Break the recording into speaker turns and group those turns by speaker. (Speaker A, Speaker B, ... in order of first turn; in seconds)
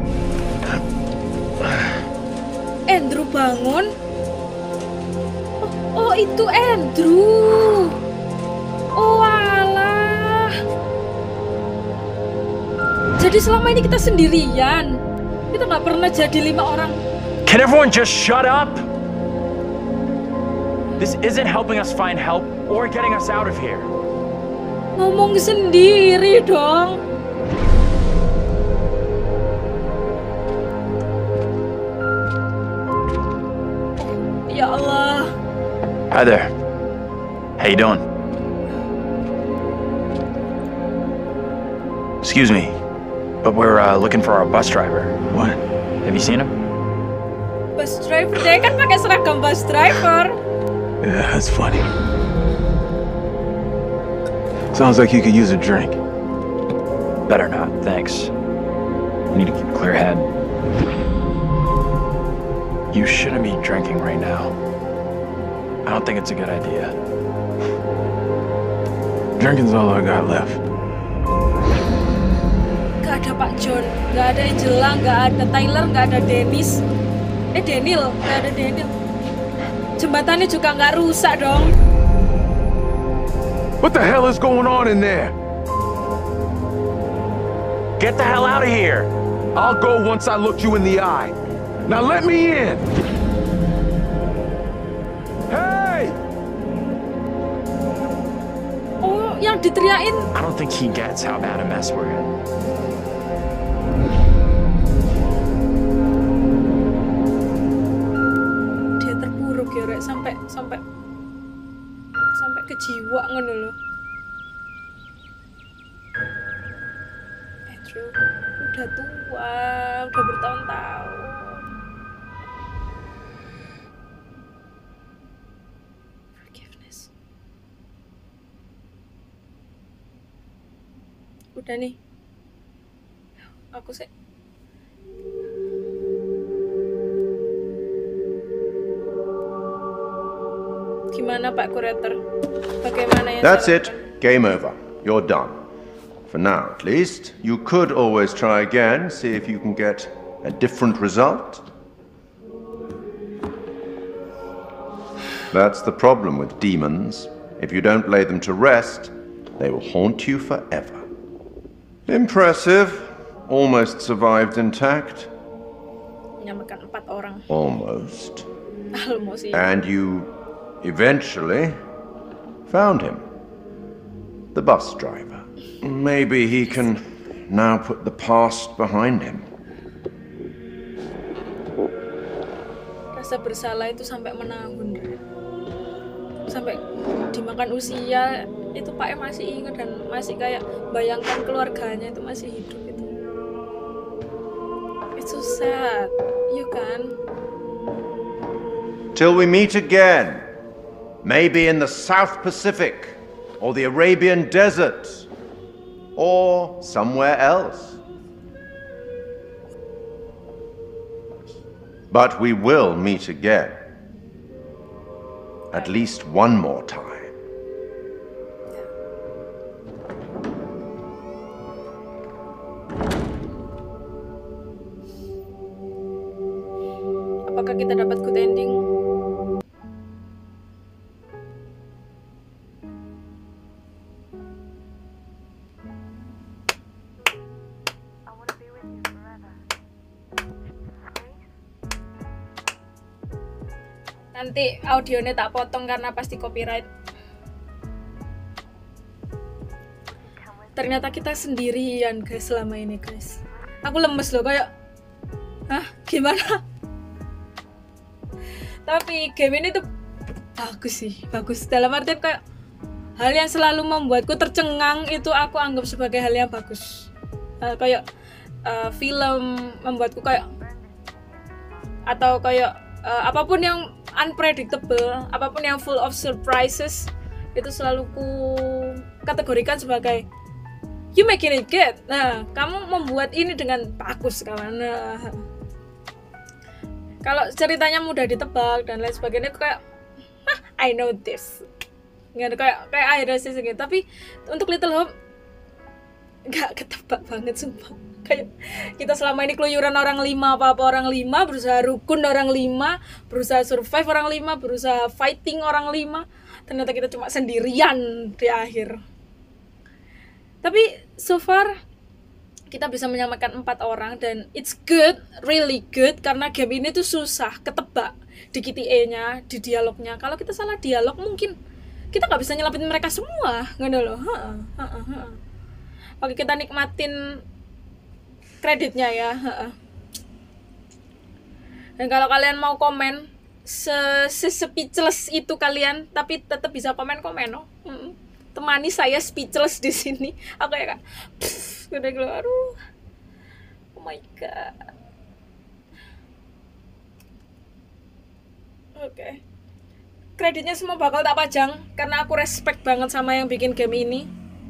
Speaker A: 2.9-3.9, 5.6-8.0, 8.9-10.5, 13.2-15.0, 15.5-17.0, 24.9-27.0, 34.5-35.3, 47.8-50.4, 73.0-76.8, 77.5-78.9, 80.0-81.7, 99.0-100.3, 109.0-110.8, 112.3-113.7, 117.7-121.6, 126.4-127.1, 131.5-132.0, 133.7-134.1, 141.1-142.2, 142.8-144.0, 166.4-167.4, 168.9-169.7, 183.1-185.2, 186.5-193.1, 195.2-197.1, 215.7-216.0, 227.4-228.8, 244.3-246.9, 250.7-254.7, 255.7-256.6, 258.9-259.8, 260.6-262.4, 263.2-267.1, 267.6-268.0, 268.6-270.4, 272.1-280.2, 281.1-285.4, 287.2-289.8, 290.4-291.6, 292.3-295.1, 296.5-309.0, 310.6-311.7, 312.7-321.5, 322.1-325.4, 326.2-327.1, 328.6-329.7, 332.0-342.8, 343.9-344.9, 349.0-349.4, 350.4-354.3
Speaker B: 17.4-18.9, 21.0-23.9, 36.1-36.5, 37.6-38.0, 42.2-42.8, 43.4-45.1, 46.0-46.5, 57.3-58.3, 59.3-60.3, 62.9-64.5, 65.8-67.0, 88.0-89.1, 100.3-102.3
Speaker C: 45.3-45.6, 51.0-51.9, 54.7-56.0, 69.4-70.6, 83.8-85.3, 89.5-91.3, 91.9-92.8, 95.5-96.2
Speaker D: 143.4-145.5, 146.3-151.6, 155.5-161.0, 162.1-165.3, 167.5-168.4, 169.5-171.7, 172.7-173.2, 174.5-179.5, 199.1-200.4, 201.2-205.3, 206.2-208.0, 212.1-213.8, 215.7-217.3